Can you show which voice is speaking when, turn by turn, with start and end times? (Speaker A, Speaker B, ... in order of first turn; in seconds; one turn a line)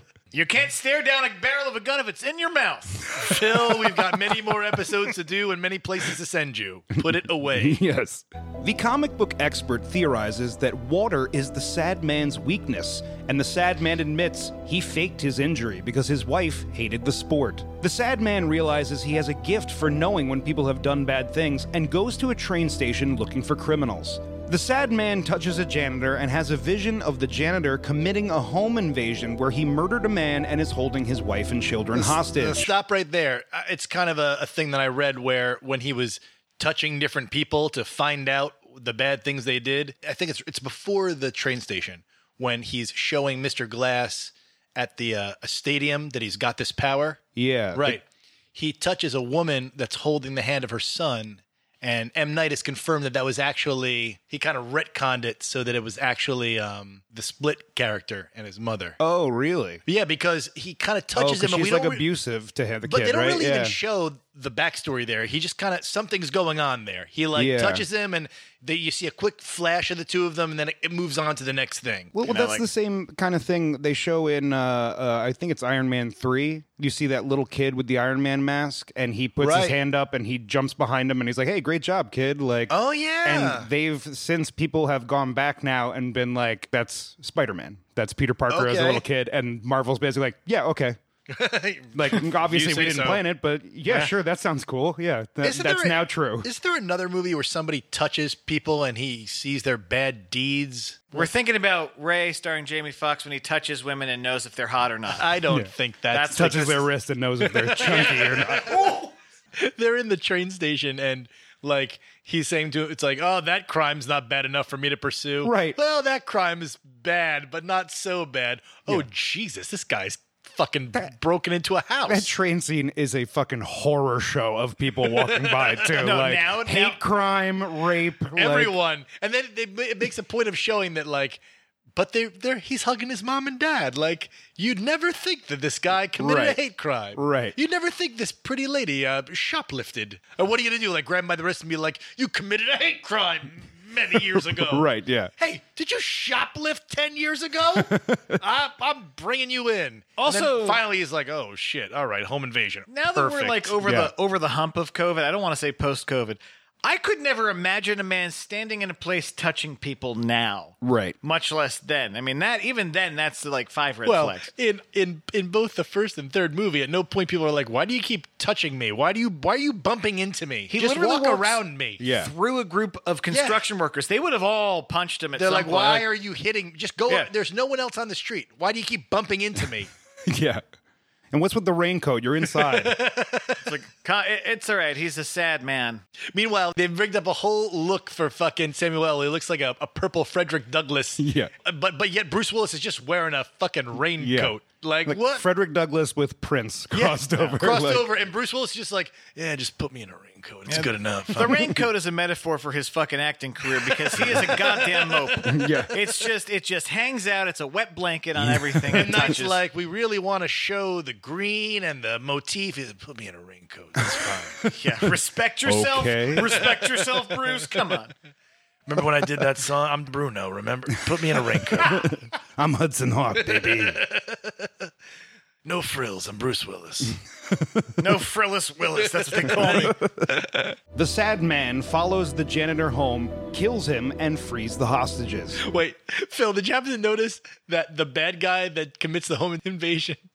Speaker A: 0.3-3.1
Speaker B: 3.2-7.8
Speaker C: 7.5-32.7
Speaker B: 31.9-47.2
Speaker C: 47.4-48.0
Speaker B: 47.7-48.0
Speaker B: 48.5-59.0
Speaker C: 59.0-59.8
Speaker B: 59.9-62.0
Speaker C: 61.1-63.8
Speaker B: 62.9-72.1
Speaker C: 67.3-67.8
Speaker C: 72.1-91.0
Speaker A: 72.2-72.6
Speaker B: 79.4-79.8
Speaker B: 82.7-83.7
Speaker B: 88.5-89.0
Speaker B: 91.3-93.2
Speaker C: 91.9-96.5
Speaker B: 95.4-101.3
Speaker A: 101.1-105.2
Speaker B: 105.1-106.9
Speaker A: 106.1-106.6
Speaker C: 106.3-108.9
Speaker B: 107.5-122.3
Speaker C: 115.4-115.8
Speaker C: 122.1-128.7
Speaker B: 125.2-125.8
Speaker A: 126.0-127.0
Speaker B: 128.3-131.4
Speaker B: 131.9-144.9
Speaker C: 136.2-136.6
Speaker C: 137.1-137.6
Speaker C: 144.3-145.3
Speaker B: 145.4-153.8
Speaker C: 147.7-148.4
Speaker A: 150.2-150.8
Speaker A: 152.9-164.5
Speaker C: 153.8-154.1
Speaker C: 160.8-161.2
Speaker B: 164.0-172.0
Speaker C: 170.8-172.3
Speaker A: 172.2-176.1
Speaker B: 173.3-173.6
Speaker B: 175.4-179.9
Speaker C: 180.3-180.6
Speaker C: 181.3-182.9
Speaker B: 182.5-183.6
Speaker A: 183.6-186.0
Speaker B: 186.3-195.5
Speaker C: 191.2-191.5
Speaker C: 194.2-194.5
Speaker C: 195.1-198.1
Speaker B: 196.9-201.7
Speaker A: 200.7-209.6
Speaker C: 201.4-201.7
Speaker B: 203.8-205.7
Speaker C: 205.5-205.9
Speaker C: 208.3-209.3
Speaker B: 208.9-214.6
Speaker C: 214.1-214.7
Speaker A: 214.7-218.1
Speaker C: 215.6-216.6
Speaker B: 218.9-222.1
Speaker C: 221.6-224.0
Speaker B: 223.5-224.7
Speaker B: 225.6-227.2
Speaker C: 227.5-227.8
Speaker A: 228.0-229.9
Speaker B: 229.3-229.9
Speaker C: 229.6-230.4
Speaker C: 230.9-235.6
Speaker B: 235.6-240.2